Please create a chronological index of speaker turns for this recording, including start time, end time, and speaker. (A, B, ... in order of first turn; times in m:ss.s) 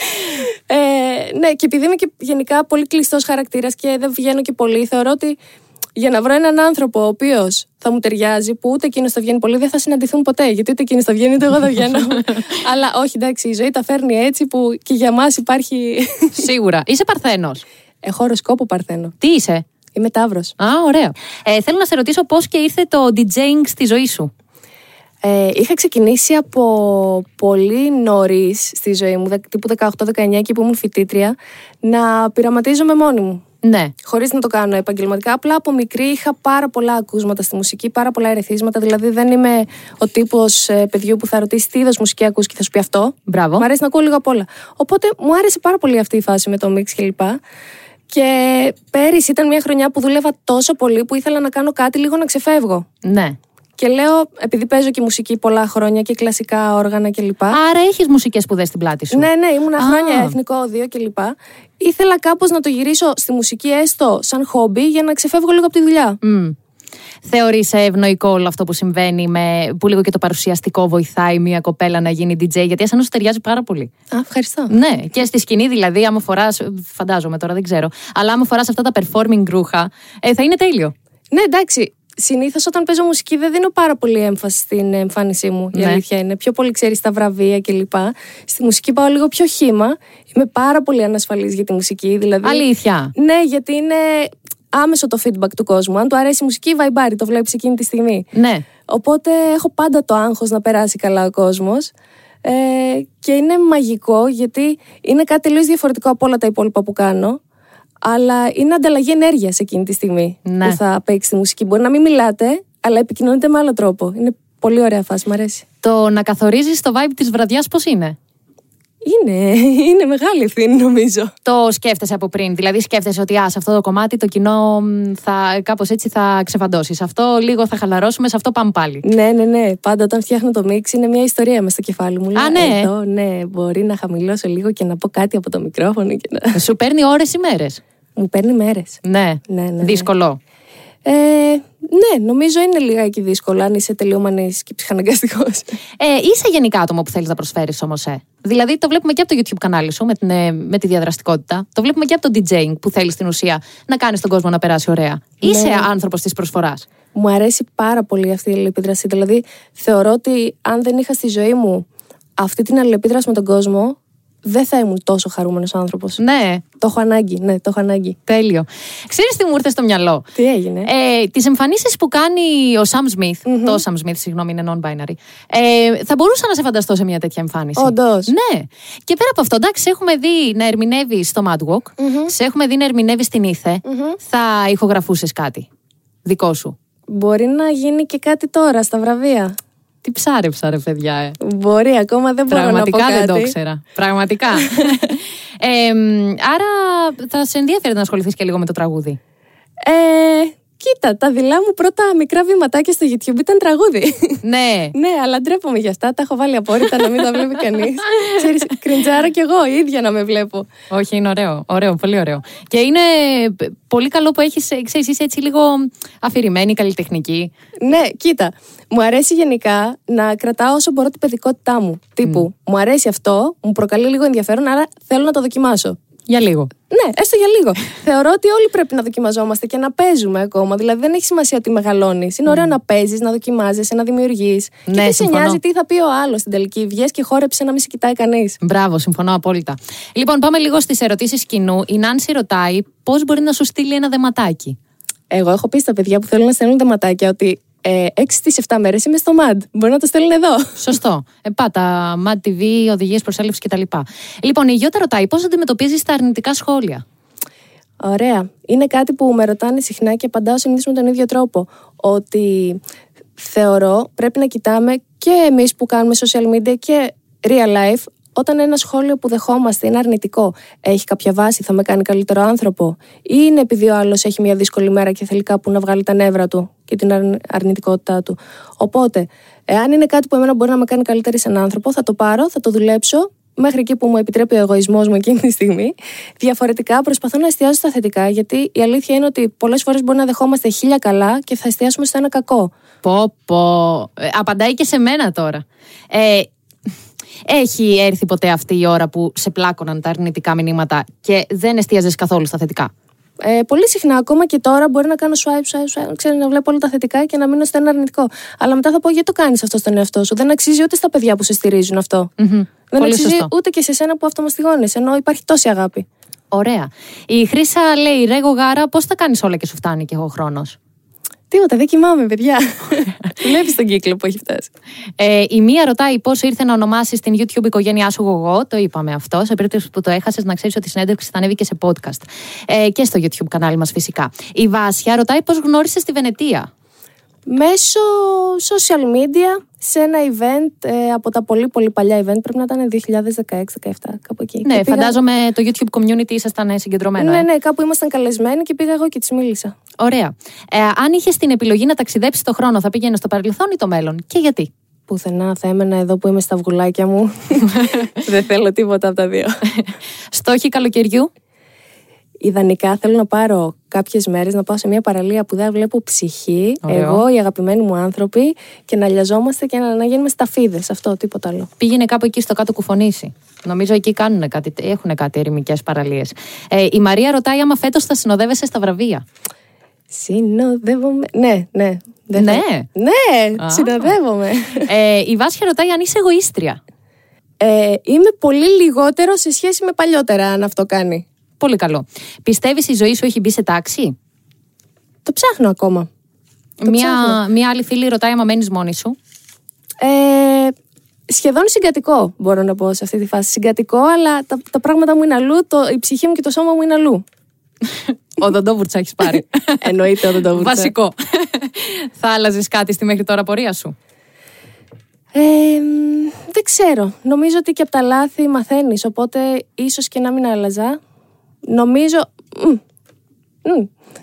0:00.2-0:05.4 A
0:06.0-0:16.4 A
0:16.4-0:17.6 B
0:18.0-0:19.1 A
0:19.2-0:19.6 B
0:19.9-0:20.5 A
0:20.6-0:24.3 B
0:25.2-0:33.4 A
0:33.6-0:33.9 B
0:34.0-0:47.4 A
0:43.3-0:43.6 B
0:48.1-0:52.8 A
0:53.0-0:53.4 B
0:53.8-0:57.6 A
0:57.5-1:00.4 B
0:59.1-1:06.2 A
1:06.2-1:06.6 B
1:07.2-1:13.9 B
1:14.1-1:14.7 A
1:14.7-1:20.9 B
1:21.3-1:38.3 A
1:25.7-1:26.0 B
1:32.4-1:33.1 B
1:38.3-1:38.6 B
1:38.9-1:41.9 A
1:42.4-1:47.4 A
1:48.0-1:55.6 A
1:50.4-1:50.8 B
1:55.8-1:58.2 B
1:59.0-2:01.3 A
2:01.4-2:09.0 B
2:09.0-2:16.6 A
2:12.4-2:12.9 B
2:16.5-2:17.8 B
2:18.2-2:20.1 A
2:19.0-2:20.4 B
2:21.0-2:25.8 A
2:26.0-2:36.9 B
2:35.4-2:35.9 A
2:37.1-2:41.8 A
2:42.4-2:46.2 A
2:46.2-2:46.6 B
2:46.8-2:48.2 A
2:48.3-2:50.2 B
2:50.4-2:50.9 A
2:50.8-3:05.7 B
2:53.4-2:53.8 A
2:57.8-2:58.3 A
3:02.0-3:02.3 A
3:03.8-3:04.2 A
3:06.2-3:06.7 B
3:07.1-3:09.5 A
3:10.0-3:11.4 B
3:11.4-3:13.5 A
3:12.5-3:19.2 B
3:19.8-3:24.4 A
3:24.4-3:24.9 B
3:24.9-3:30.7 A
3:30.9-3:37.5 B
3:37.8-3:46.0 A
3:46.3-3:46.7 B
3:46.9-3:58.6 A
3:54.9-3:55.6 B
3:58.6-4:04.8 B
4:05.3-4:10.8 A
4:10.8-4:17.0 B
4:18.0-4:22.8 A
4:23.4-4:52.7 A
4:53.0-4:56.5 B
4:57.5-5:02.9 B
5:03.4-5:12.3 A
5:12.4-5:13.5 B
5:12.9-5:16.0 A
5:16.5-5:20.8 B
5:21.5-5:24.7 A
5:25.2-5:36.7 B
5:37.5-5:45.1 A
5:44.6-5:47.4 B
5:47.2-5:49.7 A
5:50.0-5:54.7 B
5:55.1-5:59.5 A
6:00.3-6:01.3 B
6:02.4-6:11.7 A
6:06.8-6:07.2 B
6:11.8-6:19.2 B
6:20.1-6:24.9 A
6:22.4-6:22.9 B
6:23.6-6:24.1 B
6:24.8-6:26.8 B
6:27.6-6:31.2 A
6:31.6-6:34.1 B
6:35.2-6:36.1 A
6:36.8-6:39.2 B
6:36.8-6:37.4 A
6:40.0-6:40.7 A
6:41.3-6:47.2 A
6:48.4-6:49.9 B
6:49.2-6:50.9 A
6:50.5-6:53.9 B
6:55.3-7:01.0 A
7:01.7-7:02.8 A
7:03.6-7:03.9 A